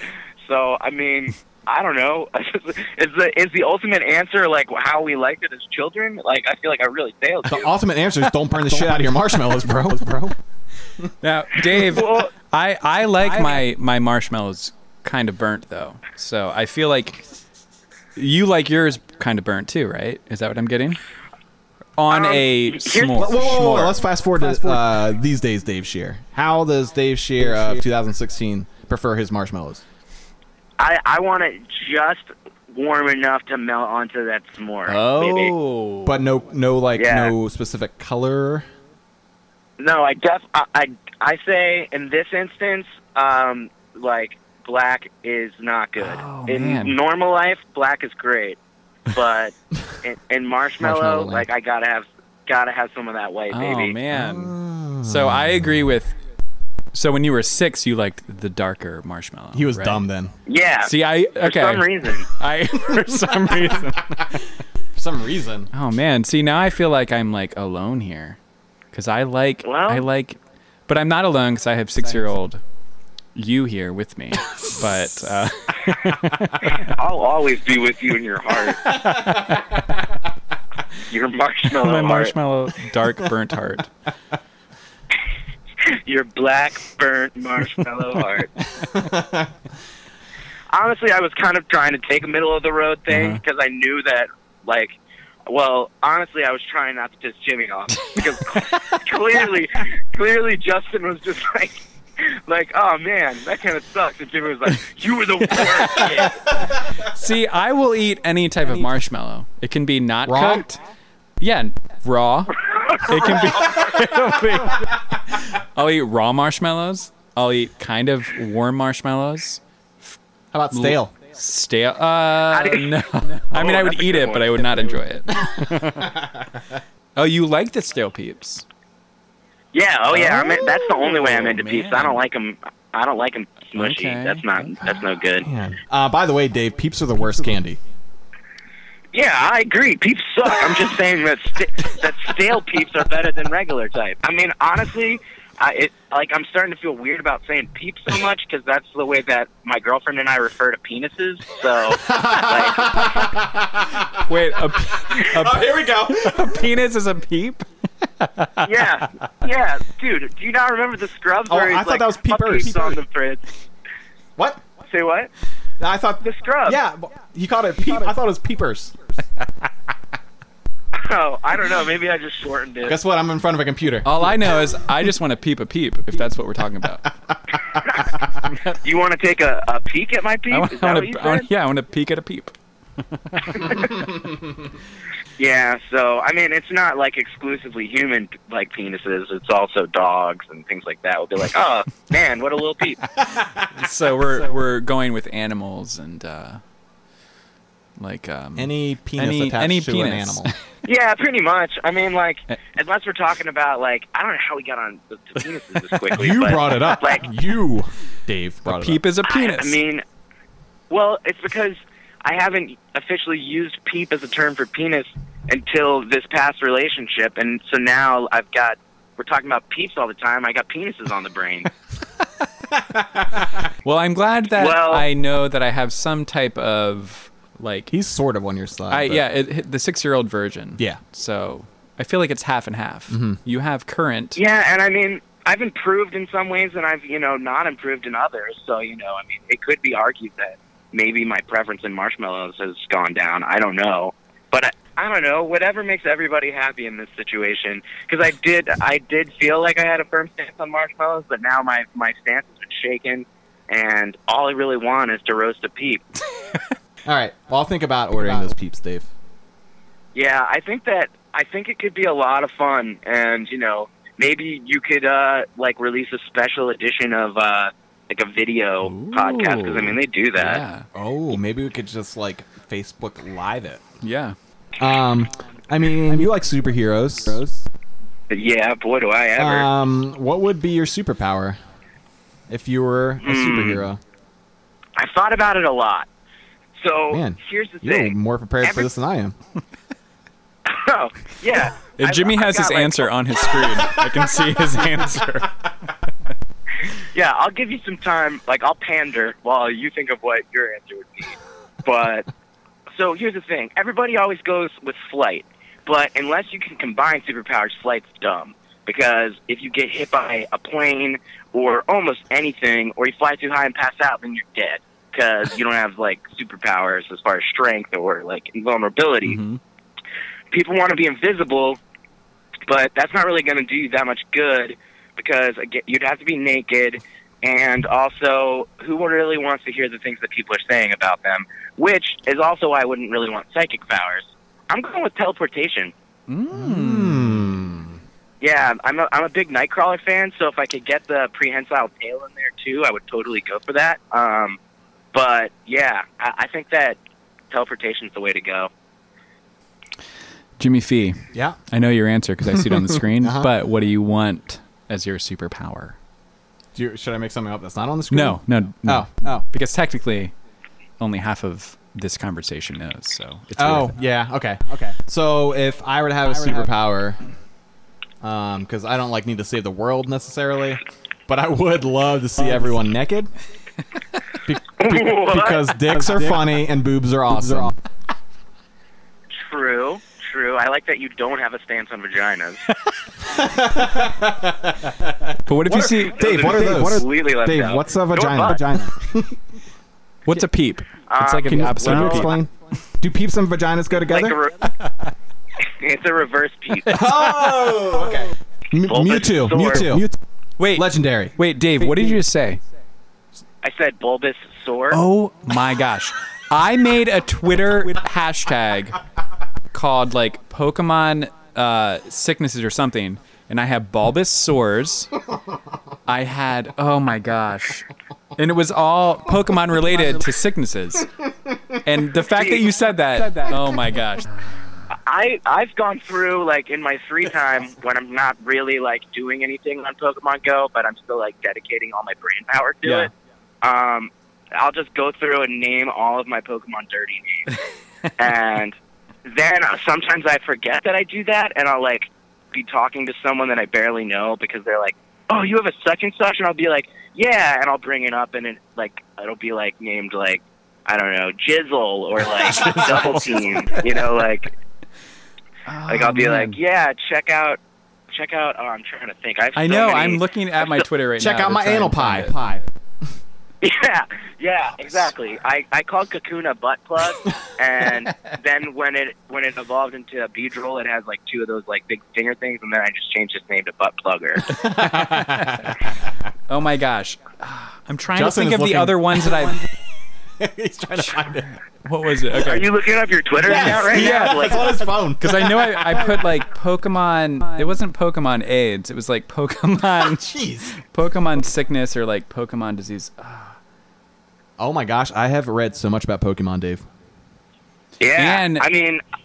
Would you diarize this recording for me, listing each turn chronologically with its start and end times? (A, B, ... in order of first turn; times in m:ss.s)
0:00.4-0:07.7 A
0:07.5-0:10.3 B
0:08.7-0:09.1 C
0:11.2-0:17.2 C
0:11.7-0:12.3 A
0:18.2-0:21.0 C
0:22.0-0:24.0 C
0:22.1-0:23.4 A
0:23.1-0:29.8 B
0:30.8-0:35.5 A
0:34.8-0:36.2 C
0:36.0-0:38.7 B
0:36.9-0:37.3 A
0:39.8-0:48.6 A
0:46.0-0:47.0 C
0:49.1-0:54.0 A
0:50.8-0:51.4 B
0:53.5-0:56.1 C
0:54.1-0:55.4 B
0:56.9-1:00.0 C
0:59.5-1:00.3 B
1:00.4-1:02.3 A
1:00.8-1:04.3 C
1:05.0-1:05.7 B
1:05.7-1:08.4 C
1:08.9-1:12.6 C
1:09.6-1:10.0 A
1:13.3-1:16.9 C
1:16.6-1:19.0 A
1:18.8-1:19.8 C
1:21.1-1:22.3 A
1:21.7-1:23.9 C
1:25.8-1:28.5 A
1:28.9-1:29.5 B
1:30.7-1:34.9 A
1:33.1-1:33.4 C
1:35.5-1:46.4 A
1:45.5-1:46.3 C
1:47.0-1:50.8 C
1:50.2-1:50.6 B
1:51.4-1:59.6 C
1:52.6-1:53.8 A
2:00.5-2:01.1 B
2:00.7-2:06.2 C
2:02.5-2:03.0 A
2:03.5-2:04.9 A
2:07.2-2:08.6 C
2:09.7-2:15.5 A
2:10.1-2:12.2 C
2:13.7-2:14.8 C
2:15.4-2:17.8 B
2:19.1-2:33.3 A
2:32.0-2:34.2 B
2:34.2-2:37.7 C
2:35.1-2:36.5 B
2:38.2-2:38.7 C
2:38.6-2:43.4 A
2:41.5-2:43.0 B
2:44.8-2:45.3 A
2:45.8-2:49.0 B
2:46.2-2:46.8 A
2:50.9-2:53.0 A
2:52.8-2:54.3 B
2:54.0-2:57.1 C
2:57.6-3:01.5 A
3:00.5-3:02.5 C
3:03.3-3:04.0 C
3:03.5-3:04.0 A
3:05.4-3:13.0 A
3:13.7-3:16.6 C
3:18.0-3:20.5 C
3:18.6-3:20.5 B
3:20.8-3:27.3 A
3:26.1-3:29.0 B
3:28.6-3:29.8 C
3:29.2-3:30.0 A
3:30.9-3:41.7 A
3:43.8-3:47.9 C
3:44.5-3:45.1 A
3:47.9-3:49.2 B
3:48.9-3:54.4 C
3:53.1-3:53.4 B
3:54.3-4:16.0 A
4:17.0-4:19.1 B
4:20.1-4:30.6 A
4:28.8-4:30.9 C
4:30.9-4:33.8 B
4:34.0-4:34.4 C
4:34.8-4:37.6 B
4:38.3-4:39.7 A
4:39.4-4:41.6 B
4:42.5-4:44.0 B
4:43.2-4:43.8 A
4:45.0-4:46.1 A
4:46.8-4:48.9 A
4:47.1-4:49.3 B
4:50.6-4:53.1 A
4:51.8-4:55.5 C
4:57.1-5:02.3 A
5:02.9-5:19.4 A
5:19.2-5:19.6 C
5:20.5-5:21.8 A
5:22.7-5:35.9 A
5:36.3-5:37.5 C
5:36.5-5:38.0 B
5:38.4-5:44.6 A
5:45.1-5:47.0 A
5:47.5-5:48.7 A
5:50.6-5:56.0 C
5:51.3-5:51.6 B
5:52.6-5:53.5 B
5:56.7-5:59.4 B
5:58.1-6:00.3 C
6:01.0-6:03.9 C
6:03.6-6:07.2 B
6:08.2-6:13.3 B
6:14.4-6:17.7 B
6:14.8-6:15.8 A
6:15.9-6:16.4 C
6:17.3-6:17.7 C
6:19.4-6:22.6 A
6:23.3-6:29.3 B
6:25.4-6:27.0 C
6:26.1-6:28.7 A
6:30.2-6:32.4 C
6:31.1-6:32.4 A
6:31.4-6:34.4 B
6:34.0-6:34.7 A
6:35.6-6:37.0 A
6:36.8-6:38.0 C
6:36.9-6:40.1 B
6:38.8-6:40.0 A
6:40.6-6:42.6 C
6:40.7-6:41.3 B
6:43.6-6:45.0 A
6:44.9-6:49.0 C
6:49.7-6:55.1 C
6:56.1-7:01.1 C
7:01.8-7:04.8 C
7:02.3-7:02.6 A
7:04.9-7:13.1 A
7:12.8-7:13.1 C
7:13.6-7:17.6 A
7:18.2-7:34.5 A
7:35.7-7:36.6 C
7:35.9-7:37.6 A
7:38.1-7:40.8 A
7:39.5-7:42.6 C
7:41.2-7:42.6 B
7:43.6-7:54.6 A
7:54.6-7:55.7 C
7:54.6-7:55.7 B
7:56.5-7:59.6 C
7:58.1-7:59.6 B
8:00.4-8:01.5 B
8:01.8-8:02.9 C
8:02.4-8:04.8 A
8:03.4-8:06.0 B
8:03.5-8:13.6 C
8:10.1-8:10.7 B
8:14.6-8:16.8 B
8:18.0-8:19.0 A
8:18.2-8:18.7 C